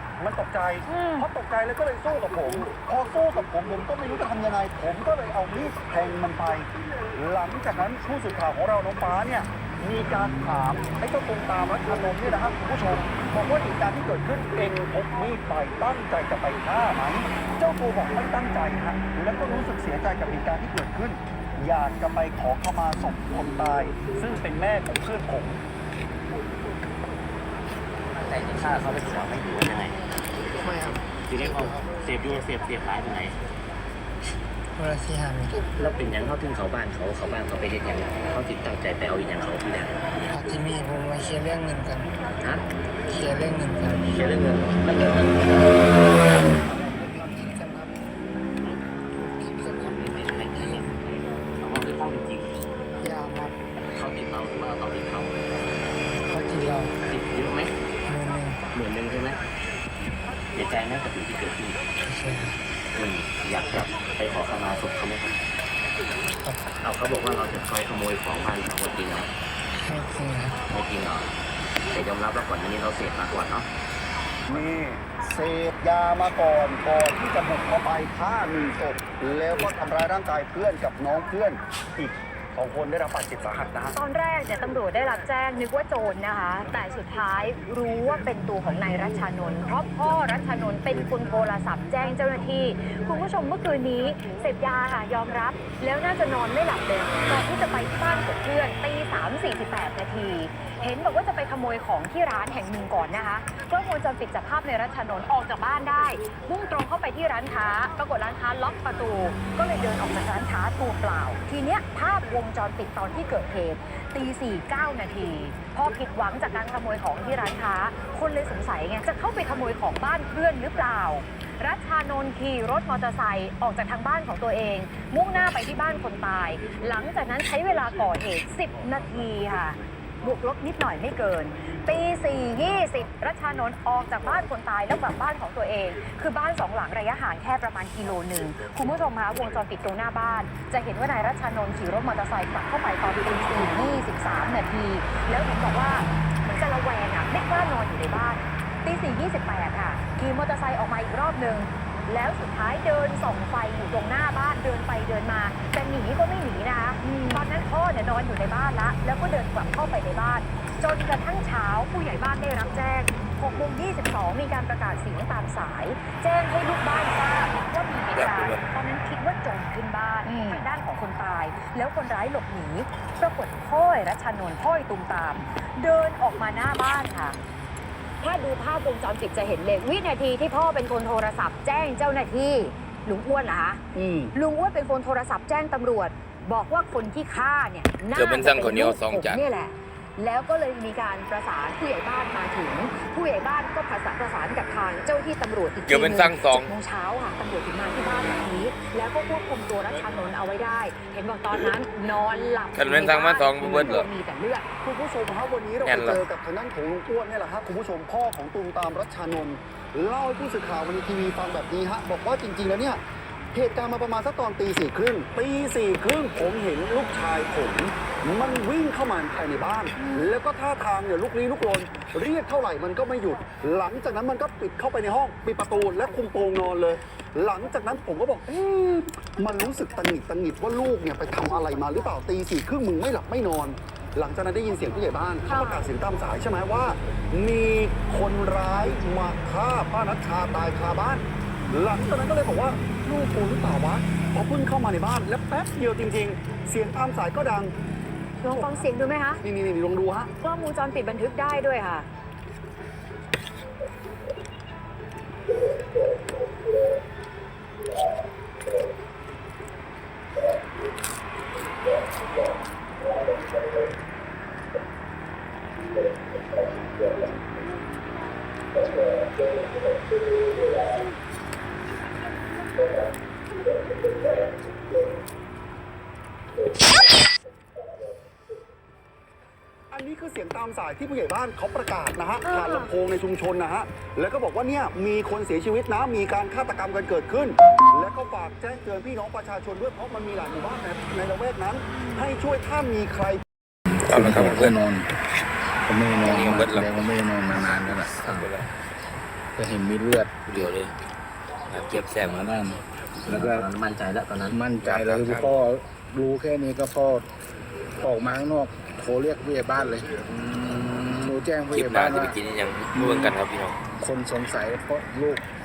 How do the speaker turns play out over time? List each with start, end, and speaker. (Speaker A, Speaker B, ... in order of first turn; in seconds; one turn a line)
Speaker A: 0.2-25.6
Speaker B: 0.8-1.2
Speaker C: 28.1-30.0
Speaker C: 30.6-33.4
Speaker D: 34.8-35.6
Speaker C: 35.8-40.4
Speaker D: 40.3-42.1
Speaker D: 43.1-44.1
Speaker C: 44.0-46.6
Speaker D: 46.9-47.9
Speaker D: 49.5-49.9
Speaker C: 49.6-51.0
Speaker D: 50.5-50.8
Speaker C: 51.6-52.5
Speaker D: 53.1-53.5
Speaker C: 53.9-55.8
Speaker D: 56.3-56.8
Speaker C: 56.6-57.7
Speaker D: 58.2-58.5
Speaker C: 58.7-59.4
Speaker C: 60.5-61.8
Speaker D: 62.2-62.5
Speaker C: 62.9-65.3
Speaker C: 66.8-69.3
Speaker D: 70.0-70.4
Speaker C: 70.6-71.3
Speaker C: 71.9-73.7
Speaker A: 74.5-84.0
Speaker B: 83.9-177.4
Speaker E: 168.1-168.7
Speaker B: 178.2-183.8
Speaker A: 183.9-184.3
Speaker B: 184.3-204.7
Speaker E: 188.1-189.4
Speaker E: 195.8-196.7
Speaker E: 202.7-204.1
Speaker A: 203.6-204.0
Speaker A: 204.8-213.0
Speaker E: 205.8-206.2
Speaker A: 213.5-247.7
Speaker B: 220.0-220.2
Speaker B: 235.5-235.8
Speaker B: 248.4-249.4
Speaker A: 249.4-250.3
Speaker B: 250.4-252.1
Speaker A: 279.9-293.4
Speaker F: 293.9-295.1
Speaker E: 294.1-294.8
Speaker F: 295.9-298.2
Speaker E: 296.2-296.9
Speaker E: 298.1-298.7
Speaker C: 298.2-298.5
Speaker F: 299.5-300.7
Speaker E: 300.4-301.0
Speaker E: 301.7-302.5
Speaker F: 301.9-303.7
Speaker C: 303.2-304.6
Speaker F: 304.5-307.3
Speaker E: 304.8-305.6
Speaker F: 308.0-312.4
Speaker E: 311.7-313.8
Speaker F: 312.9-313.4
Speaker F: 314.0-315.4